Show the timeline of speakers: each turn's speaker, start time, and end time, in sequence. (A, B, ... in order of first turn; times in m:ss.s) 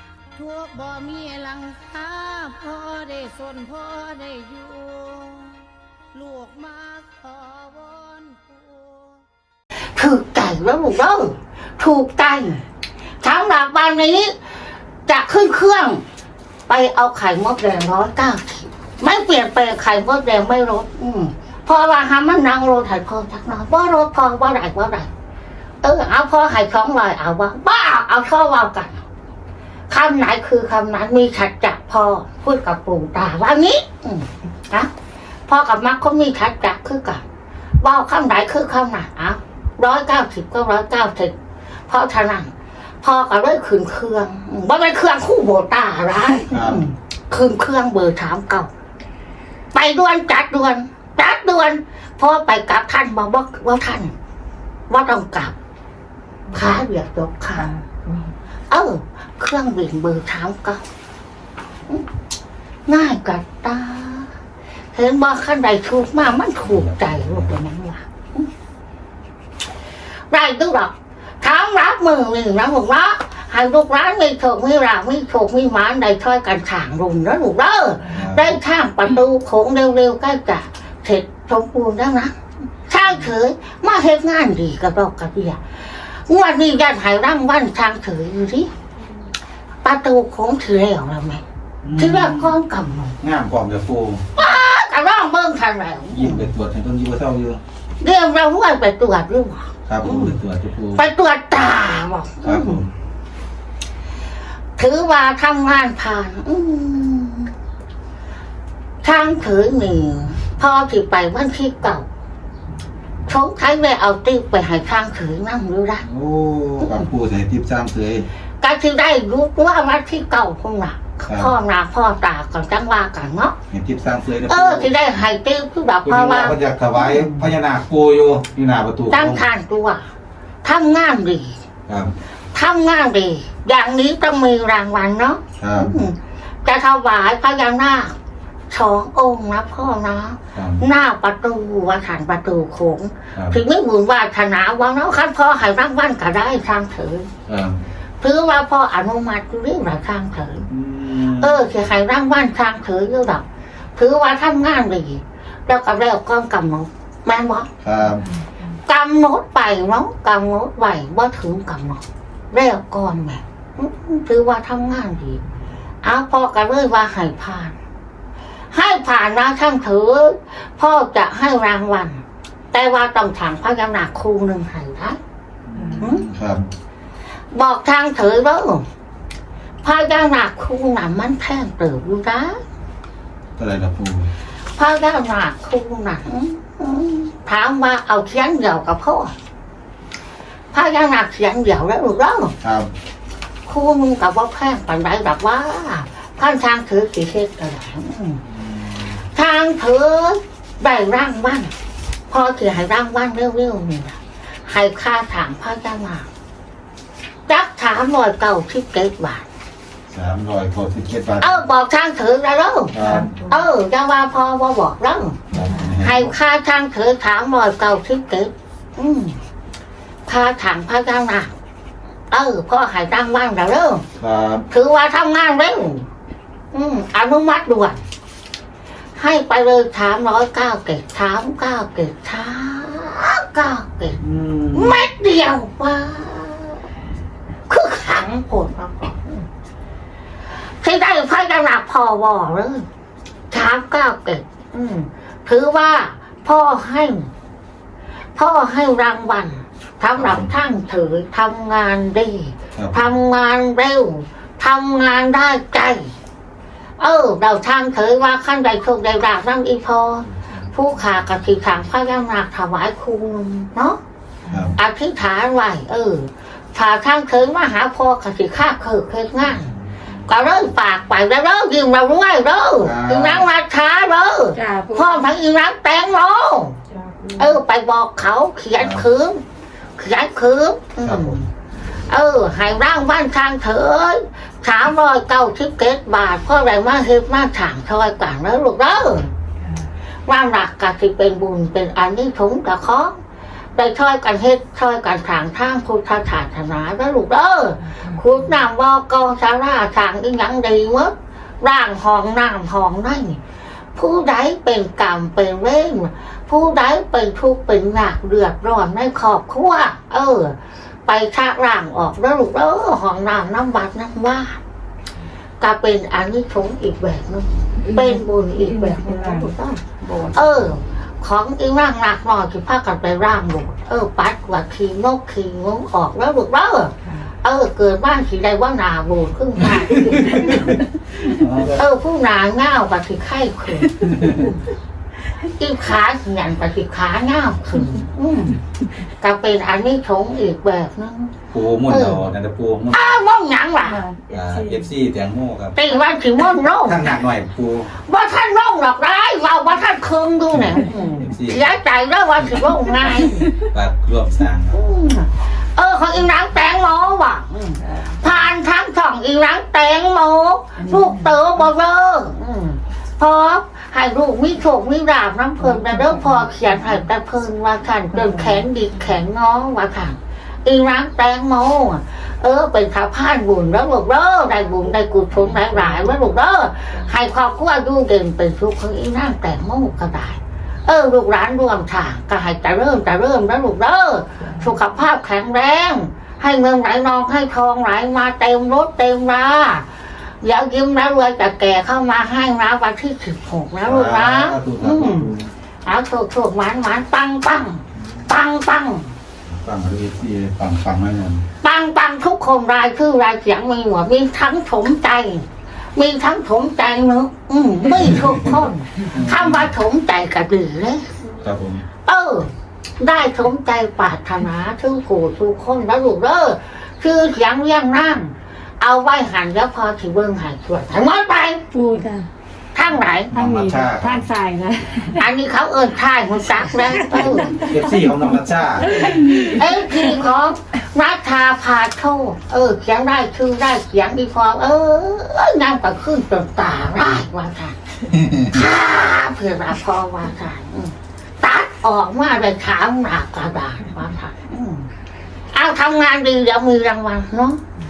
0:00.3-0:09.0 A
0:09.9-0:12.6 A
0:13.2-0:14.4 A
0:15.0-0:16.0 A
0:16.7-0:25.1 A
0:25.8-0:29.0 A
0:29.9-0:34.9 A
0:35.5-0:37.2 A
0:37.8-0:41.3 A
0:41.9-0:42.5 A
0:43.0-0:48.7 A
0:46.5-0:46.9 B
0:49.7-0:54.1 A
0:54.9-0:55.5 A
0:56.5-0:57.7 A
0:57.7-0:58.2 C
0:58.7-1:00.8 A
1:02.9-1:04.3 A
1:04.9-1:08.5 A
1:06.7-1:07.5 B
1:10.3-1:22.3 A
1:18.1-1:18.5 B
1:22.9-1:28.7 A
1:29.8-1:31.4 A
1:31.8-1:32.6 B
1:32.0-1:33.2 A
1:33.2-1:34.2 B
1:34.4-1:36.5 A
1:36.1-1:37.6 B
1:38.0-1:40.4 A
1:39.9-1:41.0 B
1:40.9-1:42.8 A
1:42.4-1:42.9 B
1:44.8-1:47.5 A
1:49.0-1:52.0 A
1:53.3-1:56.0 A
1:56.0-1:58.3 B
1:58.6-2:03.6 A
2:03.7-2:04.9 B
2:04.5-2:07.5 A
2:06.0-2:09.5 B
2:09.1-2:10.0 A
2:10.6-2:11.6 A
2:11.9-2:12.1 B
2:12.5-2:18.2 A
2:15.6-2:16.0 B
2:18.7-2:27.3 A
2:20.6-2:20.8 B
2:23.3-2:23.6 B
2:27.5-2:27.8 B
2:28.2-2:30.7 A
2:30.7-2:31.7 B
2:31.2-2:33.4 A
2:34.0-2:37.7 A
2:37.8-2:38.3 B
2:38.9-2:45.4 A
2:46.0-2:47.8 A
2:48.7-2:55.2 A
2:55.7-2:56.7 B
2:56.0-2:56.3 A
2:57.5-2:58.8 A
2:59.8-3:02.6 A
3:03.6-3:04.3 B
3:04.8-3:09.3 A
3:10.7-3:12.6 A
3:12.6-3:12.9 B
3:13.7-3:18.4 A
3:18.5-3:19.2 B
3:19.3-3:21.7 A
3:22.3-3:26.3 A
3:27.5-3:29.5 A
3:30.1-3:31.6 B
3:31.4-3:33.0 A
3:32.9-3:33.3 B
3:33.0-3:33.3 C
3:33.5-3:35.5 A
3:35.5-3:36.3 B
3:36.0-3:39.4 A
3:40.3-3:41.5 A
3:42.3-3:44.0 A
3:44.2-3:44.6 B
3:44.7-3:46.1 A
3:46.7-3:48.0 A
3:49.2-3:54.2 A
3:54.2-3:55.0 B
3:54.7-3:56.8 A
3:57.7-3:59.5 A
4:00.8-4:02.8 A
4:03.5-4:07.3 A
4:08.3-4:16.1 A
4:10.2-4:10.5 B
4:12.8-4:13.0 B
4:17.0-4:24.0 A
4:24.5-4:24.8 B
4:24.8-4:29.7 A
4:30.3-4:36.8 A
4:32.8-4:33.5 B
4:34.5-4:35.2 C
4:36.9-4:37.4 C
4:37.4-4:39.4 A
4:38.8-4:39.1 B
4:40.0-4:41.5 A
4:41.0-4:41.4 B
4:42.0-4:49.3 A
4:50.3-4:53.2 A
4:53.8-5:03.4 A
5:03.9-5:14.6 A
5:15.6-5:30.7 A
5:18.6-5:19.5 C
5:29.9-5:31.8 B
5:31.6-5:34.6 A
5:34.1-5:34.4 B
5:35.4-5:38.6 A
5:39.2-5:41.4 A
5:41.5-5:43.1 B
5:41.9-5:42.2 A
5:42.9-5:44.0 A
5:44.1-5:44.7 C
5:44.3-5:45.8 B
5:45.8-5:47.1 A
5:46.8-5:47.9 B
5:48.0-5:53.5 A
5:51.2-5:51.6 B
5:53.5-5:54.8 B
5:54.7-6:29.9 A
6:30.4-6:35.3 A
6:33.8-6:35.5 B
6:35.8-6:39.1 A
6:39.5-6:41.4 B
6:41.6-6:51.2 A
6:49.1-6:49.7 B
6:51.4-6:51.8 B
6:52.1-7:01.6 A
7:01.7-7:02.3 C
7:02.8-7:03.3 A
7:03.3-7:04.3 B
7:03.3-7:05.2 C
7:05.2-7:07.7 A
7:07.2-7:07.7 C
7:07.5-7:09.3 B
7:08.9-7:09.5 C
7:09.0-7:17.8 A
7:18.1-7:18.5 B
7:18.4-7:24.9 A
7:25.5-7:27.6 A